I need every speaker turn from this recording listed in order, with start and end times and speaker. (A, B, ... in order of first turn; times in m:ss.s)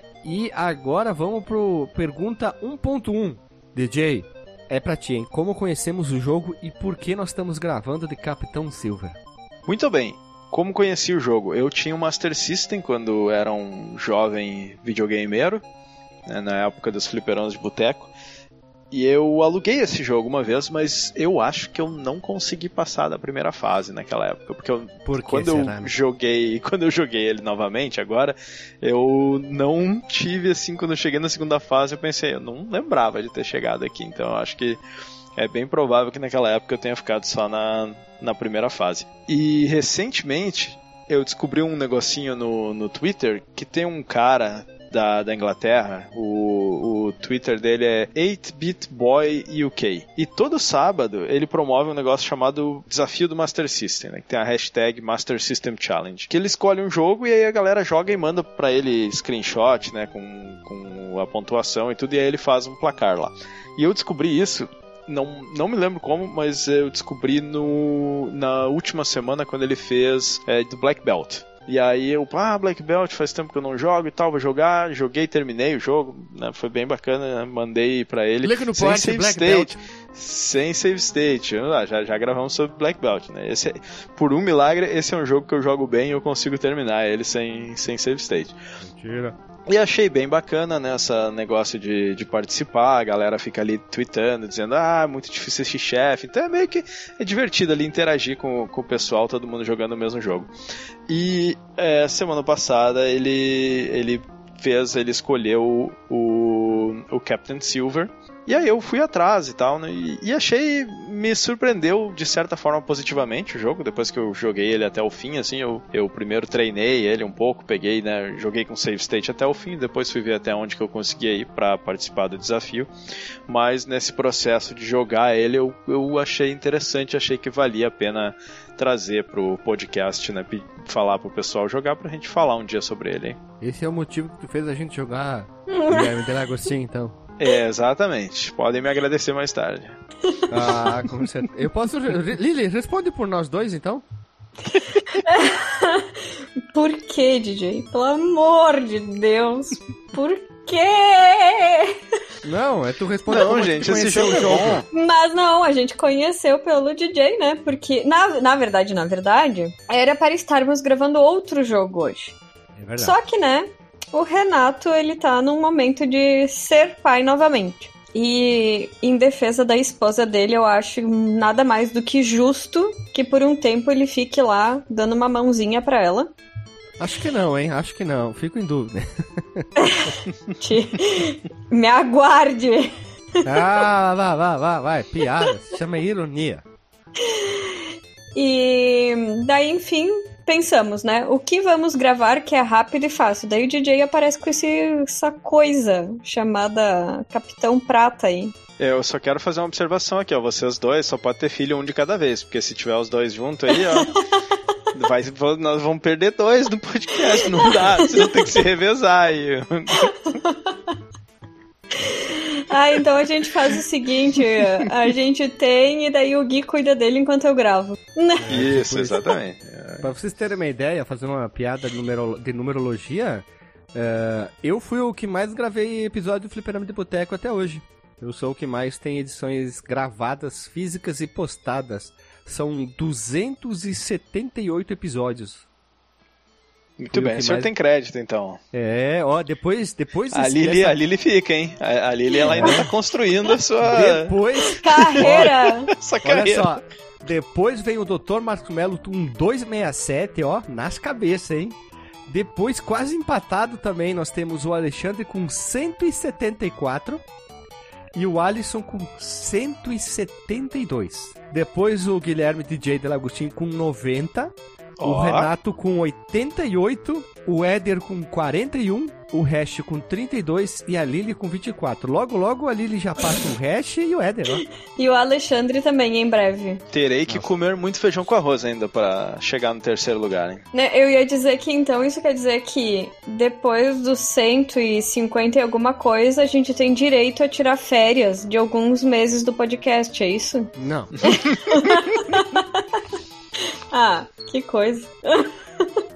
0:00.2-0:09.2 A
0:09.6-0:15.6 B
0:16.3-0:18.1 B
0:18.9-0:34.8 B
0:25.0-0:25.9 A
0:35.4-1:28.6 B
1:18.4-1:19.8 A
1:28.8-1:29.4 A
1:29.7-1:40.5 B
1:41.1-2:02.9 B
2:03.5-2:13.4 B
2:13.6-2:17.2 A
2:15.7-2:16.1 C
2:17.4-2:19.9 B
2:20.3-2:21.0 C
2:20.5-2:24.0 A
2:24.9-2:32.0 C
2:32.4-2:34.8 A
2:33.3-2:34.8 B
2:34.9-2:42.4 C
2:42.8-2:43.1 A
2:43.0-2:56.3 C
2:57.0-2:59.7 A
2:59.8-3:02.9 C
3:03.4-3:06.6 A
3:07.2-3:18.5 C
3:18.8-3:24.1 B
3:23.7-3:24.3 C
3:24.9-3:30.3 B
3:27.5-3:28.5 C
3:30.1-3:30.9 C
3:32.0-3:38.5 C
3:38.4-3:39.2 A
3:38.5-3:40.1 B
3:40.0-3:55.6 A
3:57.0-3:58.6 B
3:57.1-3:57.7 A
3:58.7-4:01.0 A
4:00.3-4:04.4 B
4:02.5-4:02.9 A
4:02.5-4:02.8 C
4:03.8-4:05.6 A
4:04.7-4:05.9 C
4:05.1-4:06.8 B
4:06.2-4:11.8 A
4:12.3-4:17.2 A
4:18.1-4:24.5 A
4:25.0-4:25.5 B
4:25.0-4:34.6 A
4:35.0-4:36.8 C
4:36.9-4:40.6 B
4:40.7-4:50.7 C
4:50.8-4:51.1 A
4:51.2-4:52.8 C
4:53.9-4:55.9 C